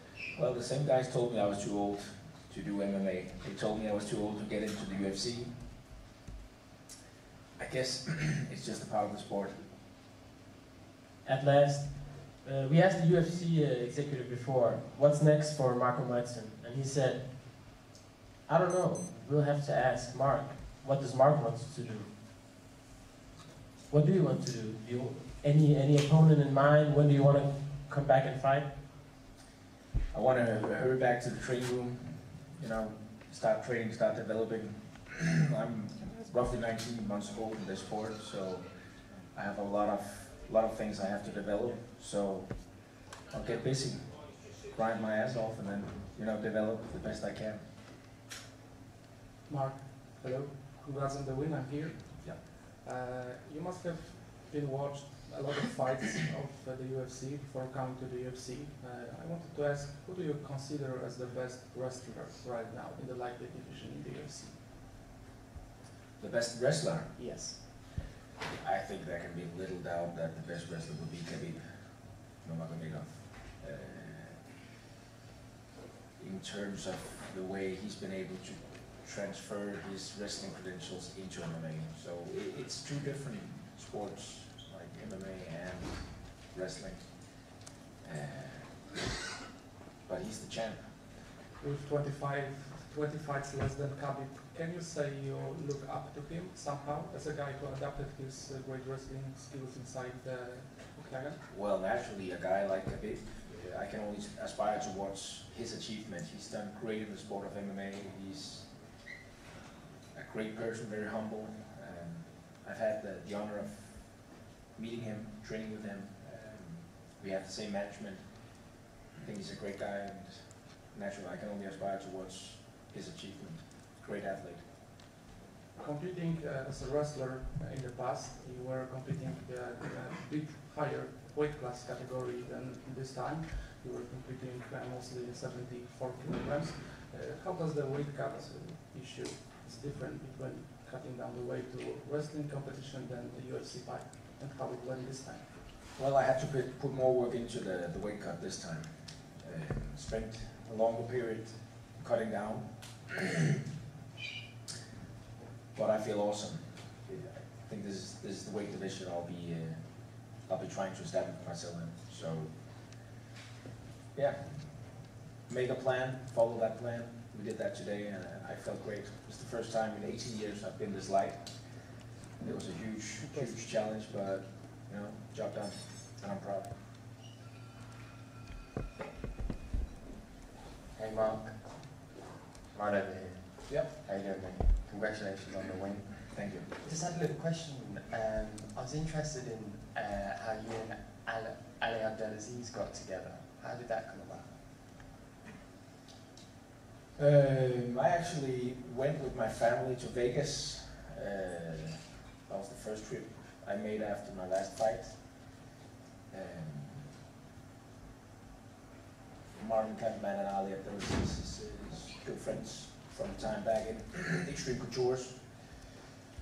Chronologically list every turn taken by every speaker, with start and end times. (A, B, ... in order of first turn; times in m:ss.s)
0:00.3-0:05.7 A
0:07.6-0:09.7 A
0:11.2-0:17.8 B
0:18.4-0:22.1 B
0:23.9-0:28.8 B
0:30.1-0:47.7 A
0:49.4-1:04.6 C
1:06.2-1:07.7 A
1:07.2-1:07.6 D
1:08.6-1:14.5 A
1:16.2-1:29.0 A
1:30.0-1:31.2 A
1:31.6-1:41.4 C
1:41.5-1:49.1 A
1:50.1-2:04.7 A
2:05.8-2:25.5 C
2:25.9-2:33.2 A
2:35.7-2:43.1 A
2:44.1-2:56.8 A
2:53.3-2:53.5 C
3:00.9-3:02.1 D
3:02.7-3:14.6 D
3:03.7-3:03.9 A
3:06.3-3:06.7 A
3:17.1-3:25.7 A
3:26.3-3:27.2 A
3:29.5-3:36.0 A